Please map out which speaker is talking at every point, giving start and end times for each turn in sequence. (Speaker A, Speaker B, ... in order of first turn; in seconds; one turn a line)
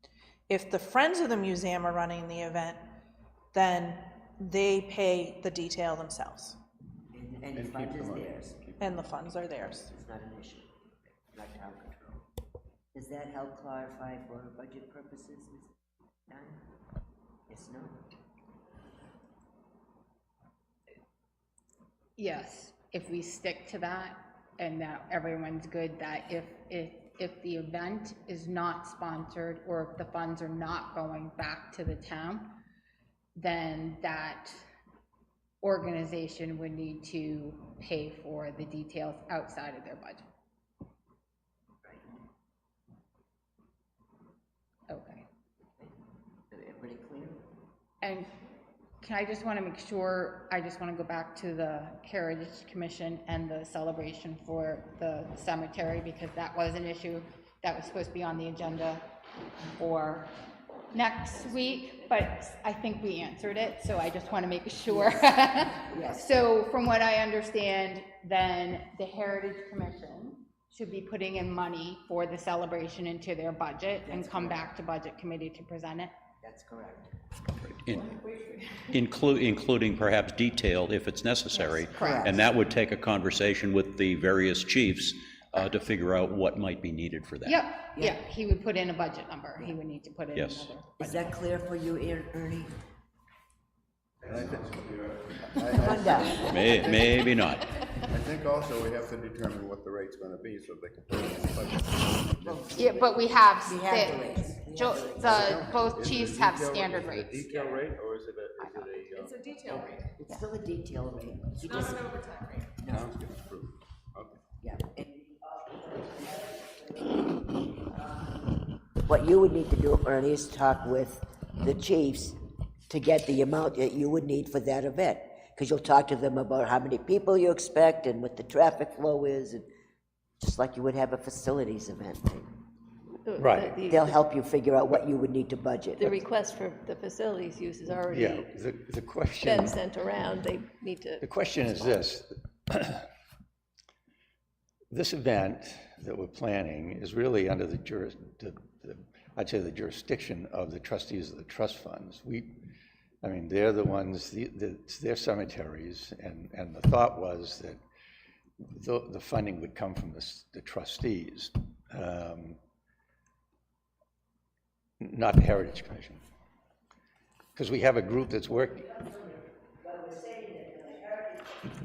Speaker A: 0.5-2.9
Speaker A: 3.5-6.6
Speaker B: 7.1-8.6
Speaker C: 7.5-8.8
Speaker A: 8.8-9.9
Speaker B: 9.9-10.7
Speaker B: 11.3-12.2
Speaker B: 12.9-15.7
Speaker B: 16.3-16.6
Speaker B: 17.5-18.0
Speaker D: 22.2-32.6
Speaker D: 33.3-34.6
Speaker D: 35.6-40.2
Speaker D: 44.9-45.2
Speaker B: 46.5-47.4
Speaker D: 48.0-48.3
Speaker D: 49.0-59.0
Speaker D: 59.8-60.3
Speaker D: 60.9-76.1
Speaker B: 64.9-66.4
Speaker B: 74.0-74.6
Speaker B: 76.4-77.1
Speaker E: 77.6-78.1
Speaker F: 78.2-78.8
Speaker E: 78.9-87.6
Speaker D: 81.5-82.4
Speaker B: 81.9-82.4
Speaker D: 87.5-91.3
Speaker E: 90.3-90.7
Speaker B: 91.0-92.8
Speaker C: 94.2-97.2
Speaker B: 95.7-96.9
Speaker E: 96.4-97.7
Speaker C: 98.1-102.7
Speaker B: 102.4-106.0
Speaker D: 102.8-107.6
Speaker C: 105.3-109.9
Speaker D: 108.6-108.9
Speaker F: 109.1-110.1
Speaker B: 110.2-112.2
Speaker F: 111.7-112.6
Speaker B: 112.8-113.1
Speaker C: 112.9-114.4
Speaker B: 114.6-117.2
Speaker B: 117.9-118.3
Speaker B: 119.0-122.3
Speaker B: 122.9-129.7
Speaker B: 130.4-132.5
Speaker G: 133.2-134.1
Speaker H: 133.4-133.9
Speaker B: 133.9-136.1
Speaker G: 136.0-138.5
Speaker H: 138.1-139.8
Speaker G: 139.4-141.2
Speaker H: 141.2-143.0
Speaker H: 144.9-152.6
Speaker H: 153.2-157.8
Speaker H: 158.7-162.6
Speaker H: 165.0-166.2
Speaker H: 167.6-169.0
Speaker B: 170.1-171.3